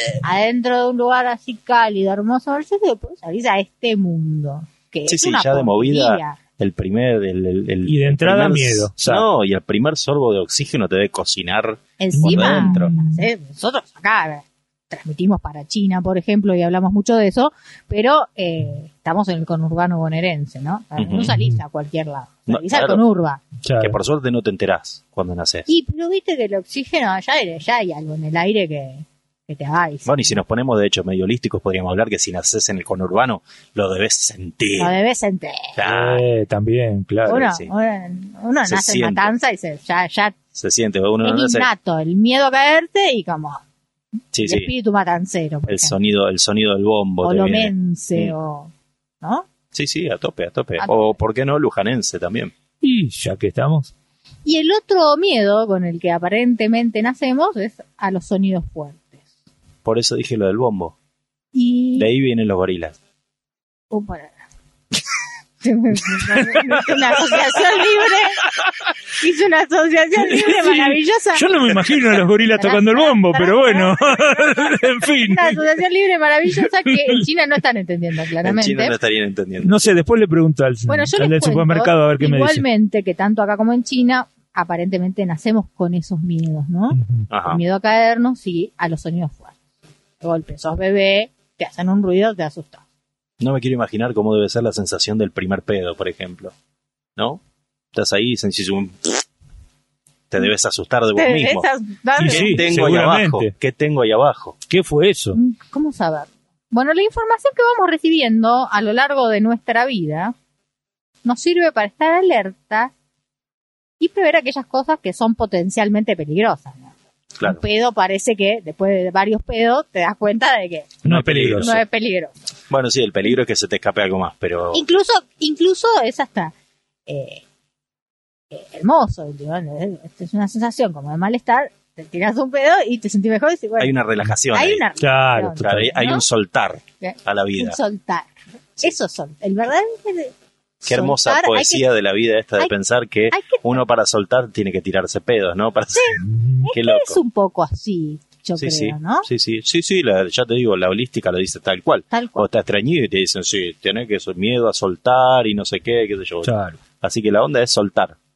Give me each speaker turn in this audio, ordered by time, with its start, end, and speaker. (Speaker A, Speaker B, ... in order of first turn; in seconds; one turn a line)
Speaker A: 0.2-6.4
Speaker B: 5.1-12.9
Speaker C: 7.8-9.2
Speaker A: 12.0-23.4
Speaker C: 12.1-13.2
Speaker B: 21.0-21.3
Speaker C: 21.2-21.6
Speaker B: 22.5-23.0
Speaker C: 23.6-24.0
Speaker B: 23.8-25.7
Speaker A: 25.7-30.4
Speaker B: 30.1-34.9
Speaker A: 34.8-35.8
Speaker B: 35.8-36.2
Speaker C: 35.8-37.4
Speaker B: 37.2-37.7
Speaker A: 37.3-40.4
Speaker B: 38.6-39.3
Speaker B: 40.5-41.7
Speaker A: 41.2-43.6
Speaker B: 44.3-44.7
Speaker A: 44.4-46.0
Speaker B: 45.7-48.3
Speaker A: 47.2-49.5
Speaker B: 49.7-52.5
Speaker A: 50.8-51.1
Speaker C: 52.8-53.9
Speaker A: 54.4-59.2
Speaker B: 59.8-60.9
Speaker A: 61.5-62.1
Speaker B: 61.9-63.0
Speaker A: 63.9-64.4
Speaker A: 65.6-68.5
Speaker A: 69.1-74.4
Speaker C: 70.2-75.6
Speaker A: 75.2-79.0
Speaker C: 76.6-77.2
Speaker B: 78.4-79.9
Speaker C: 79.6-82.6
Speaker A: 80.9-89.6
Speaker C: 86.9-87.3
Speaker B: 87.3-87.6
Speaker A: 90.2-92.8
Speaker B: 93.4-96.5
Speaker B: 97.2-97.4
Speaker B: 97.9-99.2
Speaker B: 100.3-101.7
Speaker A: 101.1-102.7
Speaker C: 102.2-103.5
Speaker B: 102.2-104.6
Speaker C: 104.7-105.4
Speaker A: 105.3-110.3
Speaker A: 111.2-112.9
Speaker A: 114.0-121.0
Speaker C: 121.0-121.7
Speaker B: 121.0-121.8
Speaker A: 121.6-122.3
Speaker B: 122.7-124.9
Speaker A: 124.7-126.5
Speaker A: 127.0-127.4
Speaker A: 128.5-133.9
Speaker B: 133.8-134.8
Speaker A: 134.5-136.2
Speaker C: 135.0-136.0
Speaker B: 135.6-137.8
Speaker A: 137.0-141.9
Speaker B: 140.8-147.2
Speaker A: 143.3-143.8
Speaker A: 145.9-149.3
Speaker C: 146.2-146.7
Speaker B: 148.6-158.2
Speaker A: 152.1-152.5
Speaker C: 156.4-156.8